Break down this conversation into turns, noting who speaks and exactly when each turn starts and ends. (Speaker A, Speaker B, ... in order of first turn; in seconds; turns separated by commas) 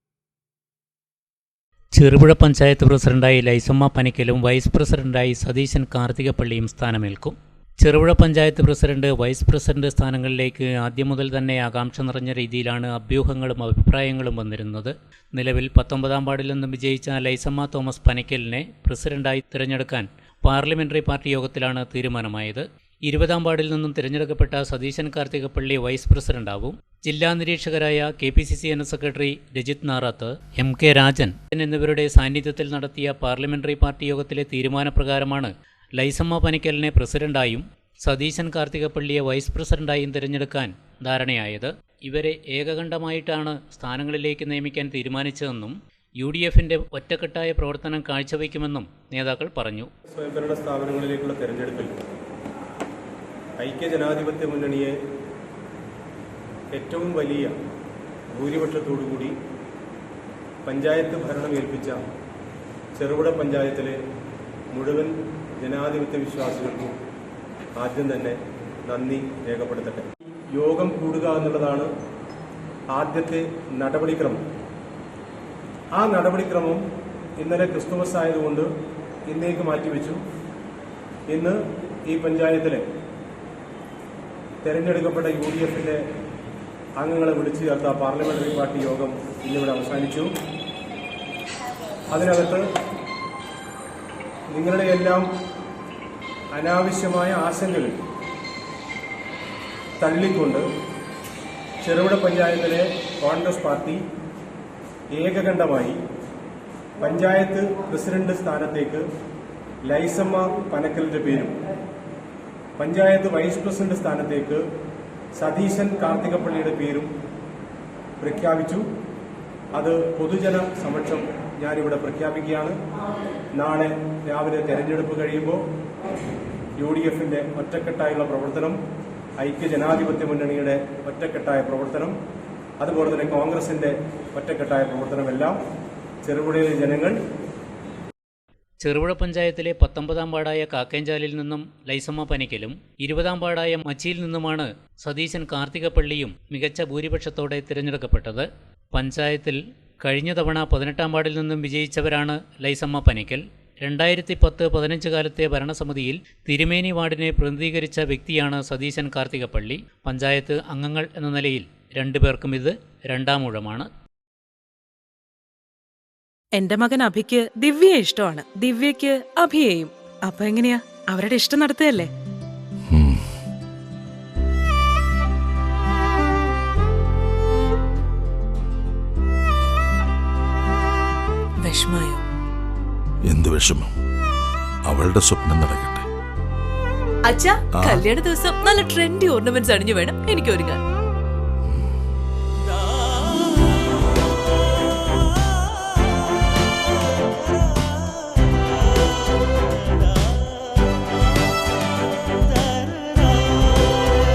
Speaker A: 1.9-49.9, Speaker B: 50.1-51.9, Speaker B: 53.6-54.9, Speaker B: 56.7-57.5, Speaker B: 58.3-59.3, Speaker B: 60.6-62.0, Speaker B: 63.0-64.0, Speaker B: 64.7-66.9, Speaker B: 67.8-68.4, Speaker B: 68.9-71.9, Speaker B: 72.9-74.4, Speaker B: 75.9-76.8, Speaker B: 77.4-78.7, Speaker B: 79.3-80.2, Speaker B: 81.3-82.8, Speaker B: 84.6-86.0, Speaker B: 87.0-90.3, Speaker B: 92.1-92.6, Speaker B: 94.5-95.3, Speaker B: 96.5-98.0, Speaker B: 100.0-100.6, Speaker B: 101.8-104.0, Speaker B: 105.1-106.0, Speaker B: 107.0-109.0, Speaker B: 109.8-111.5, Speaker B: 112.8-114.6, Speaker B: 115.3-117.1, Speaker B: 118.2-118.9, Speaker B: 119.7-122.8, Speaker B: 123.5-125.6, Speaker B: 126.8-128.8, Speaker B: 129.4-132.1, Speaker B: 132.8-135.6, Speaker B: 136.2-137.2, Speaker A: 138.8-163.9, Speaker C: 166.5-172.1, Speaker D: 172.9-173.2, Speaker E: 181.6-182.2, Speaker D: 183.2-183.9, Speaker D: 184.9-186.0, Speaker E: 187.2-190.8, Speaker D: 187.7-188.0